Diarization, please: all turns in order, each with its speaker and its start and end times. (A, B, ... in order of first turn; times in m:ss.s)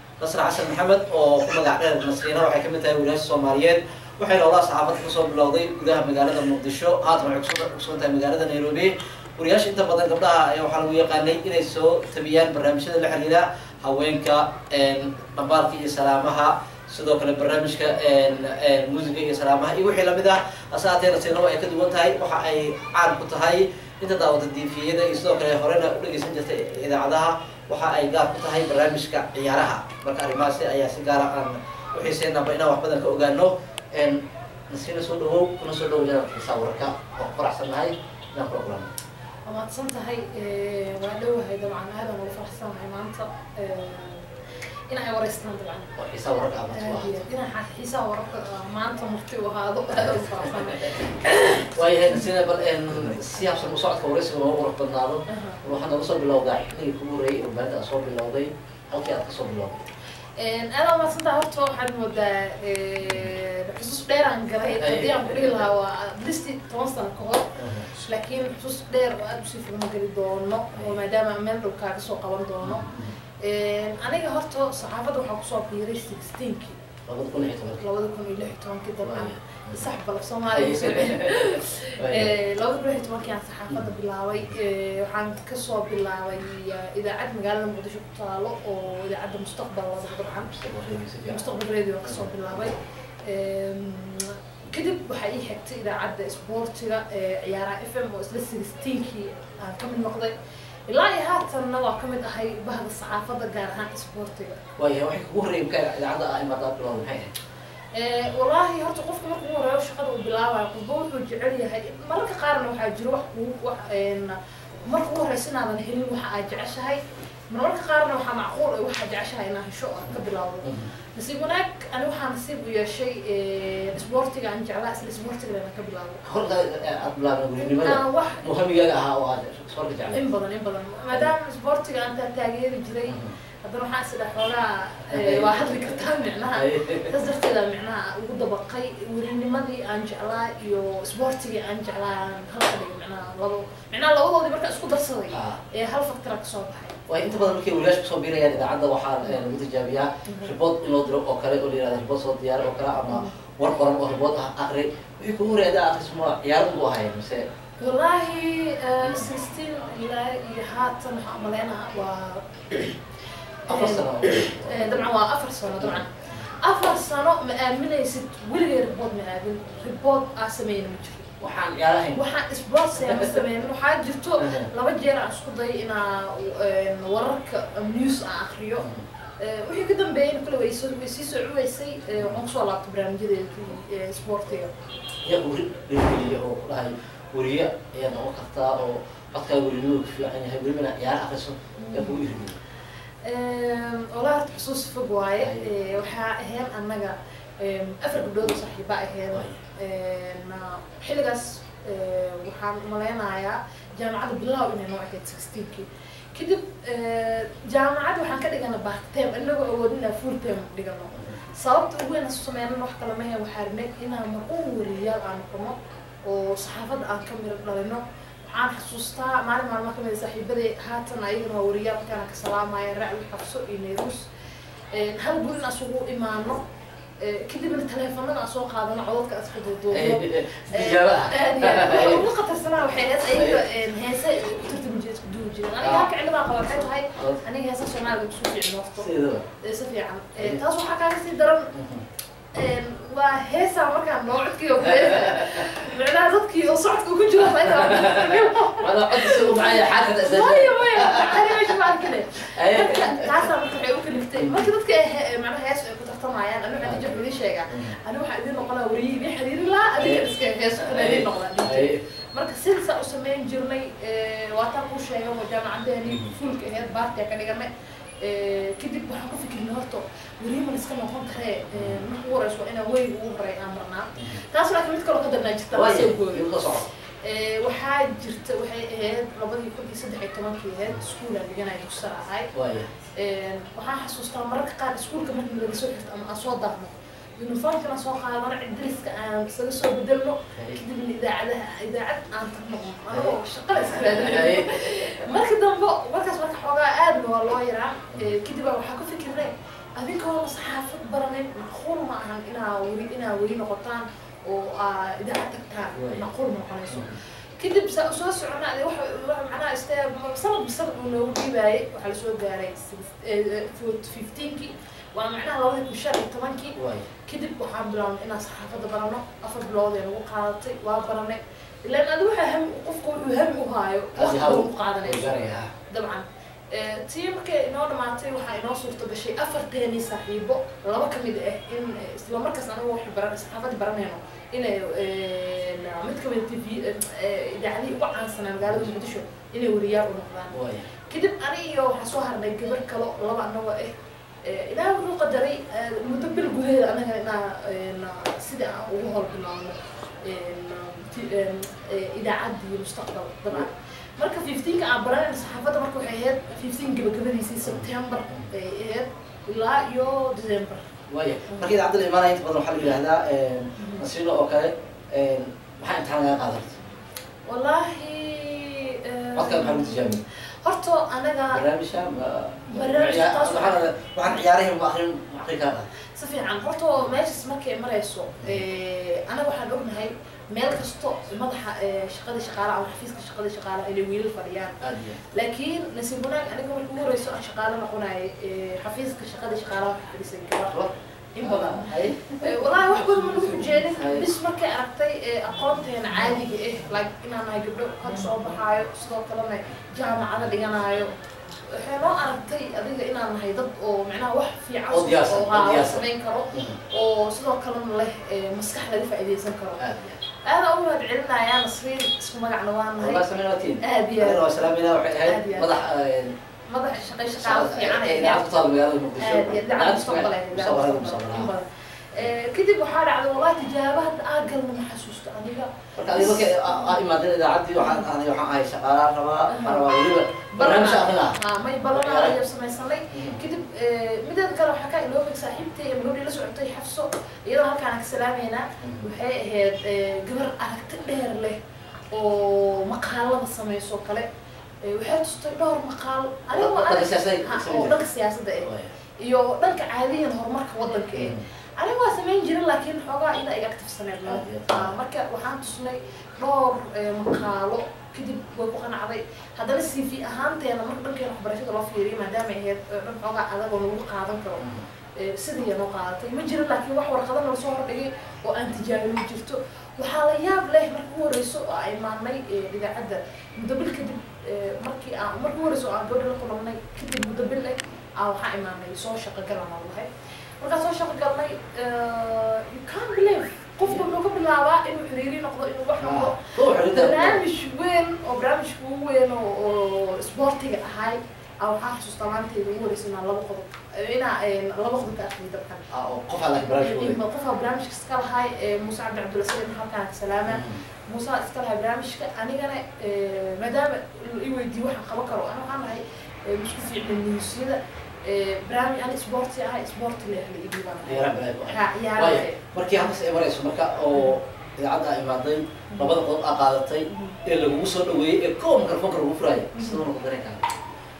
0:00.2-0:38.9 A
0:39.5-0:45.9 B
0:46.0-0:47.2 A
0:46.7-0:52.3 B
0:49.9-0:59.8 A
0:55.3-0:55.6 B
1:00.4-1:16.8 B
1:04.8-1:05.6 A
1:07.6-1:07.9 A
1:12.6-1:13.2 A
1:17.1-1:17.8 A
1:17.8-1:30.5 B
1:19.0-1:19.9 A
1:20.5-1:22.4 A
1:30.3-1:31.5 A
1:31.2-1:40.3 B
1:32.0-1:32.7 A
1:40.9-1:44.6 B
1:44.8-1:47.3 A
1:47.9-2:06.2 B
2:00.1-2:00.9 A
2:06.2-2:10.2 A
2:07.6-2:08.4 B
2:10.1-2:27.0 B
2:13.1-2:13.3 A
2:15.1-2:16.0 A
2:16.5-2:17.1 A
2:25.3-2:25.6 A
2:27.1-2:37.5 A
2:30.3-2:30.5 B
2:37.8-2:43.0 B
2:39.0-2:39.3 A
2:43.7-2:51.4 B
2:43.7-2:45.0 A
2:45.8-2:46.5 A
2:51.4-2:52.2 A
2:52.1-2:58.9 B
2:53.0-2:53.4 A
2:54.4-2:54.7 A
2:58.8-2:59.0 A
2:59.4-3:04.7 B
3:05.2-3:12.6 A
3:11.8-3:12.2 B
3:13.2-3:44.3 B
3:15.4-3:15.7 A
3:19.3-3:19.6 A
3:31.1-3:31.4 A
3:44.9-3:46.6 B
3:47.2-4:01.7 B
3:49.9-3:52.2 A
3:53.3-3:53.6 A
3:55.8-3:56.1 A
3:59.0-3:59.4 A
4:01.7-4:02.0 A
4:02.5-4:27.7 B
4:04.8-4:05.7 A
4:07.6-4:13.5 A
4:14.4-4:14.7 A
4:16.8-4:17.2 A
4:17.7-4:18.0 A
4:20.0-4:22.0 A
4:26.0-4:26.3 A
4:28.2-4:36.5 B
4:31.7-4:32.0 A
4:35.7-4:36.9 A
4:37.2-4:42.5 B
4:42.5-4:42.9 A
4:43.2-5:16.7 B
4:50.5-4:50.8 A
4:53.1-4:54.8 A
5:05.9-5:06.2 A
5:06.9-5:07.2 A
5:16.8-5:17.1 A
5:17.2-5:40.6 B
5:24.2-5:25.7 A
5:38.6-5:38.9 A
5:40.5-5:40.9 A
5:41.1-6:00.9 B
5:57.6-5:58.5 A
6:01.1-6:06.8 A
6:03.8-6:04.0 B
6:07.5-6:11.6 B
6:09.3-6:10.2 A
6:11.5-6:15.9 A
6:12.7-6:13.8 B
6:16.1-6:24.8 B
6:24.8-6:25.2 A
6:25.3-6:49.8 B
6:31.4-6:32.5 A
6:33.8-6:34.3 A
6:44.9-6:46.8 A
6:49.8-6:50.2 A
6:50.4-6:53.3 B
6:53.0-6:56.3 A
6:53.8-6:55.7 B
6:56.7-6:58.5 B
6:57.4-7:01.5 A
6:59.2-7:07.0 B
7:06.0-7:11.4 A
7:09.5-7:09.9 B
7:10.5-7:21.6 B
7:11.9-7:12.4 A
7:13.1-7:13.4 A
7:18.8-7:19.1 A
7:22.1-7:24.3 B
7:24.8-8:00.1 B
7:26.5-7:28.0 A
7:28.6-7:28.9 A
7:31.1-7:31.4 A
7:34.3-7:34.9 A
7:44.6-7:44.8 A
8:00.6-8:15.8 B
8:06.0-8:07.4 A
8:15.9-8:17.2 A
8:16.8-8:32.6 B
8:20.5-8:20.8 A
8:31.0-8:40.6 A
8:35.9-8:36.2 B
8:37.1-8:37.4 B
8:39.7-8:40.0 B